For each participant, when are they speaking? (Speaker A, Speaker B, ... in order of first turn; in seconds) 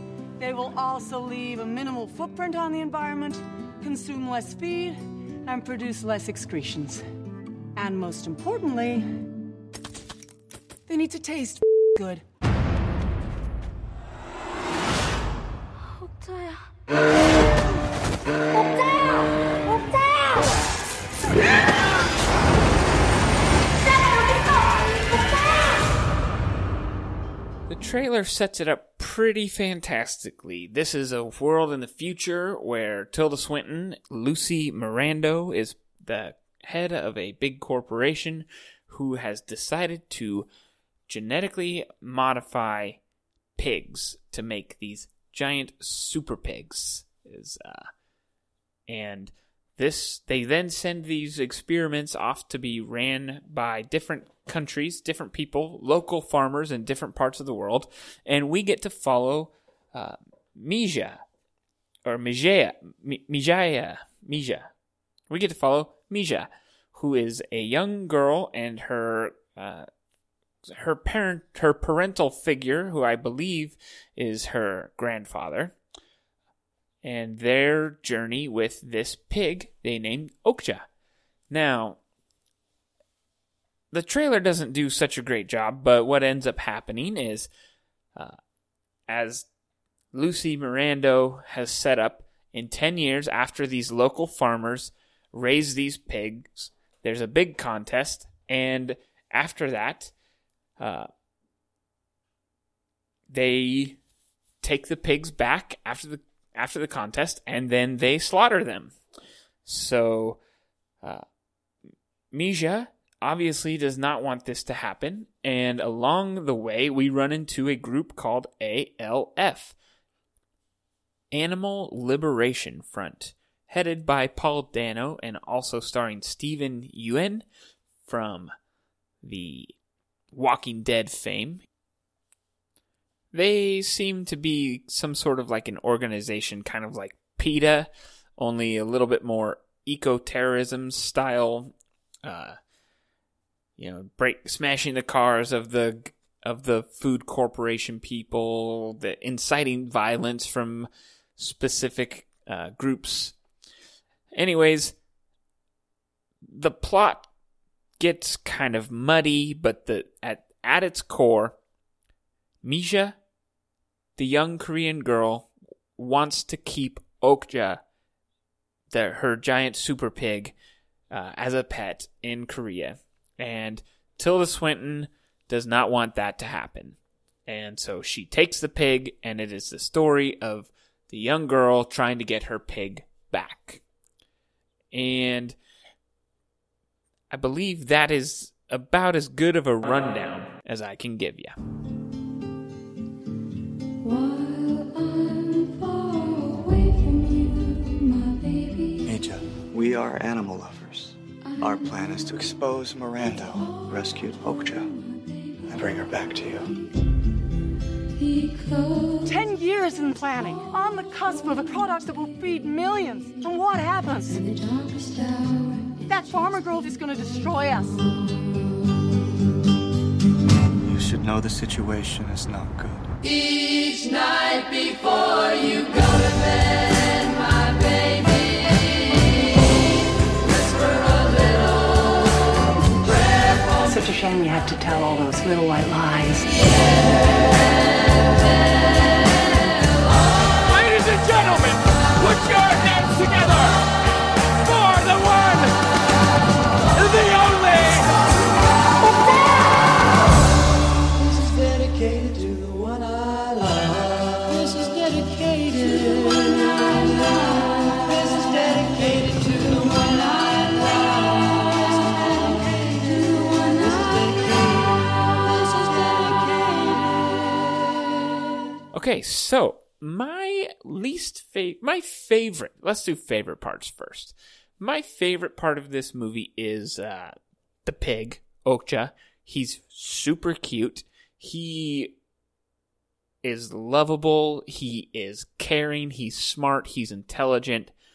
Speaker A: 0.4-7.0, 7.8-9.1, 10.9-12.2, 209.2-214.4, 216.1-218.0, 233.8-236.5
Speaker B: 15.9-16.6, 194.0-199.1, 208.2-209.2, 214.3-216.0, 254.9-257.0, 258.3-260.7, 262.5-264.4, 266.4-266.8
Speaker C: 27.7-40.5, 41.1-43.0, 43.6-47.9, 48.9-61.2, 62.0-64.7, 65.3-69.9, 70.7-75.8, 77.0-80.9, 81.5-82.0, 83.9-87.5, 89.1-89.5, 90.1-100.1, 100.8-101.1, 103.3-104.0, 104.6-109.0, 109.7-110.4, 112.3-119.8, 121.3-127.5, 128.1-128.5, 129.2-129.7, 130.3-131.6, 133.3-141.7, 142.2-142.6, 143.8-153.3, 154.3-154.9, 156.5-157.3, 158.0-161.6, 162.6-163.2, 164.2-167.8, 168.9-170.5, 171.1-177.0, 177.5-183.8, 184.9-185.6, 187.3-191.6, 268.9-282.1, 283.4-287.9
Speaker D: 199.1-204.9, 205.7-206.7, 220.8-223.0
Speaker E: 240.7-243.6, 244.7-245.7, 247.0-248.0